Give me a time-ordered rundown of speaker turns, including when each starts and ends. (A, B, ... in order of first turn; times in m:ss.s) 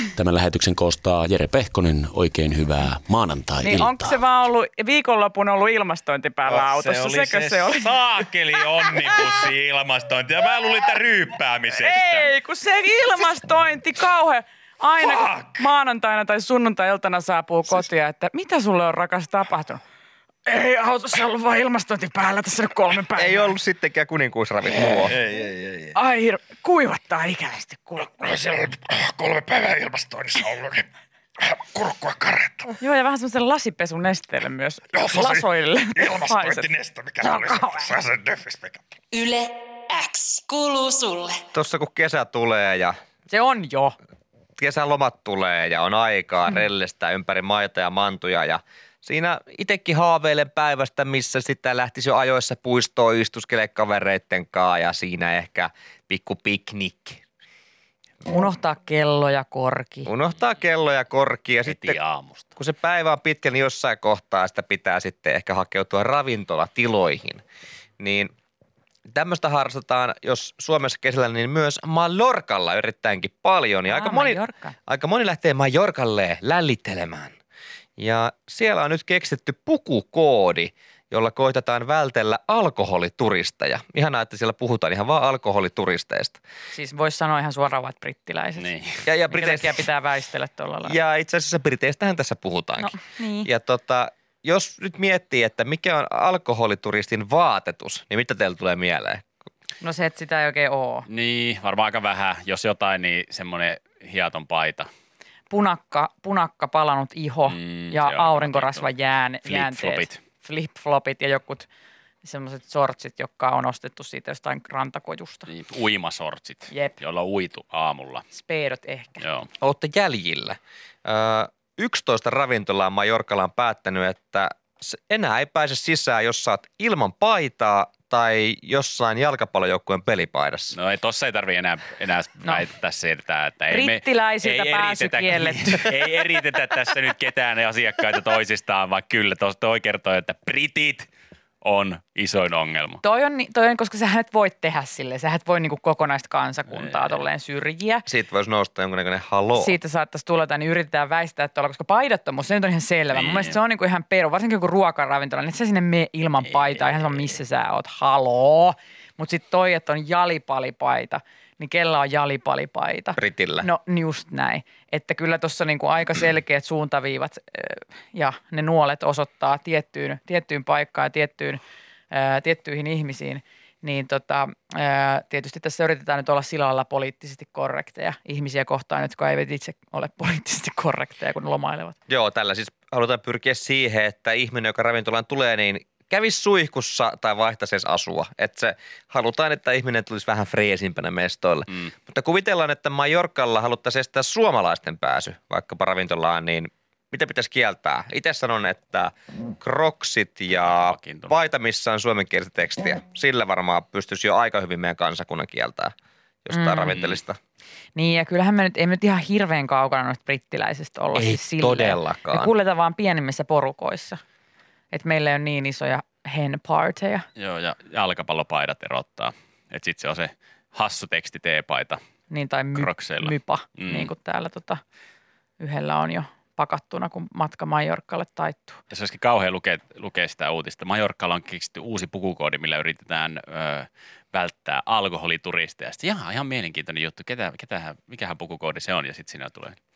0:00.2-0:04.0 A
0:03.6-0:09.2 B
0:06.5-0:12.3 C
0:11.7-0:19.8 B
0:15.1-0:15.5 C
0:20.4-0:23.6 B
0:23.1-0:25.2 D
0:24.9-0:25.9 C
0:25.9-0:28.3 B
0:28.3-0:30.8 C
0:31.5-0:32.7 C
0:32.8-0:37.9 B
0:35.0-0:38.8 C
0:39.1-0:41.4 E
0:41.5-0:43.0 D
0:43.3-0:43.9 B
0:44.6-0:57.2 D
0:58.2-1:00.1 B
1:00.0-1:02.0 D
1:01.6-1:02.5 C
1:02.6-1:07.4 D
1:08.0-1:08.3 D
1:09.1-1:17.4 D
1:13.9-1:14.7 B
1:18.0-1:26.4 D
1:26.7-1:28.7 B
1:28.6-1:29.0 C
1:29.0-1:29.8 D
1:29.3-1:31.0 B
1:30.8-1:39.2 D
1:32.8-1:33.5 B
1:39.8-1:41.0 B
1:41.1-1:44.9 C
1:45.5-1:51.7 B
1:47.5-1:48.9 C
1:49.4-1:50.2 C
1:52.2-1:55.5 B
1:55.5-1:58.2 C
1:58.3-1:59.2 B
1:59.2-1:59.5 C
1:59.6-2:10.8 D
2:10.7-2:21.1 C
2:13.7-2:16.2 B
2:21.6-2:23.0 C
2:23.0-2:28.0 B
2:26.7-2:27.1 C
2:28.0-2:29.8 D
2:29.5-3:02.0 B
2:33.1-2:33.6 C
2:36.6-2:37.3 C
2:43.2-2:43.7 D
3:02.1-3:25.9 D
3:20.6-3:21.3 C
3:26.4-3:27.4 D
3:26.5-3:27.0 B
3:27.9-3:34.2 B
3:31.1-3:32.5 D
3:34.9-3:37.3 B
3:37.4-3:42.0 C
3:42.3-3:44.8 B
3:42.7-3:44.1 C
3:45.6-3:48.8 B
3:48.9-3:59.8 C